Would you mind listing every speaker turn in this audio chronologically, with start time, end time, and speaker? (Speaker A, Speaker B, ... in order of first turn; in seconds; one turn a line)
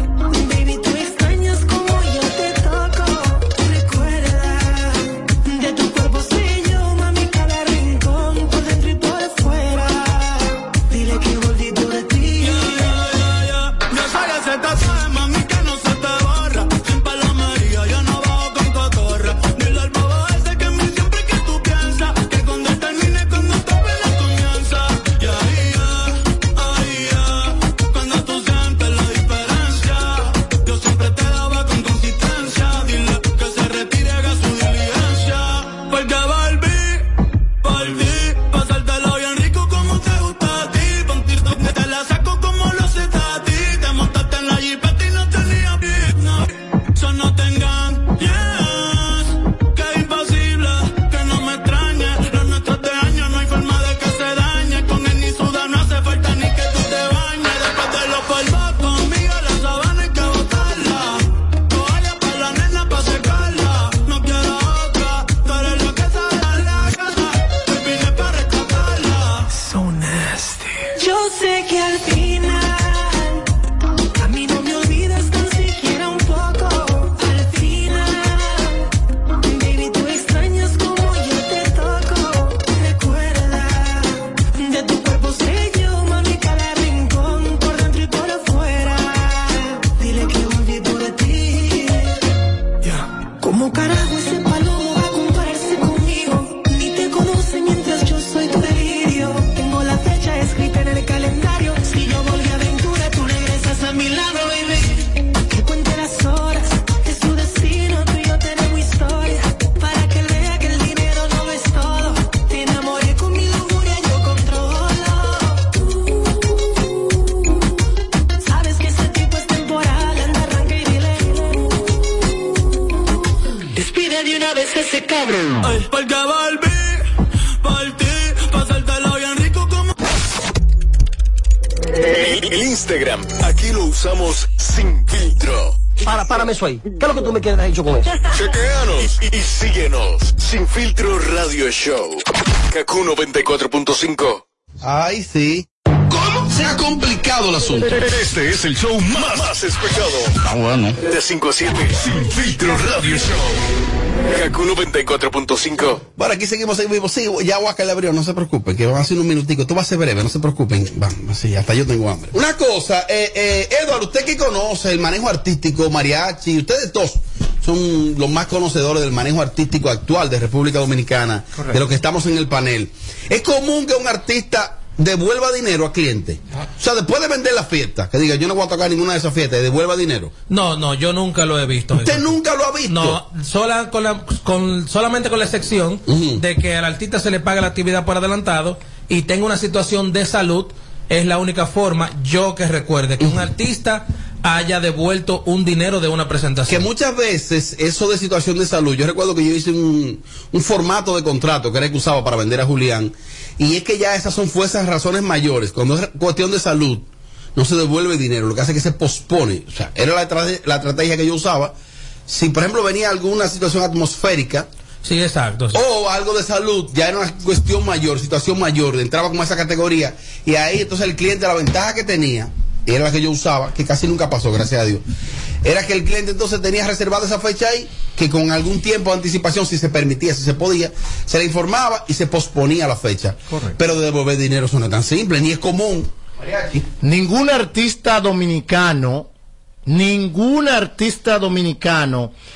Speaker A: 0.3-12.8
Speaker B: 12.4-37.1
Speaker B: 37.6-69.5
Speaker A: 71.0-73.5
Speaker A: 74.2-78.9
Speaker A: 79.4-92.2
Speaker A: 92.8-115.8
Speaker A: 118.4-121.8
Speaker A: 123.7-125.6
Speaker B: 125.6-127.1
Speaker B: 127.6-129.9
Speaker C: 131.9-135.8
Speaker C: 138.3-144.4
Speaker D: 144.8-147.9
Speaker C: 147.9-153.6
Speaker C: 154.3-156.0
Speaker D: 156.2-180.3
Speaker E: 180.5-196.9
Speaker D: 181.9-183.2
Speaker D: 186.1-186.4
Speaker D: 196.7-211.7
Speaker D: 212.3-214.7
Speaker E: 215.0-215.8
Speaker D: 215.7-225.0
Speaker D: 225.6-236.9
Speaker F: 237.0-239.3
Speaker F: 239.9-242.3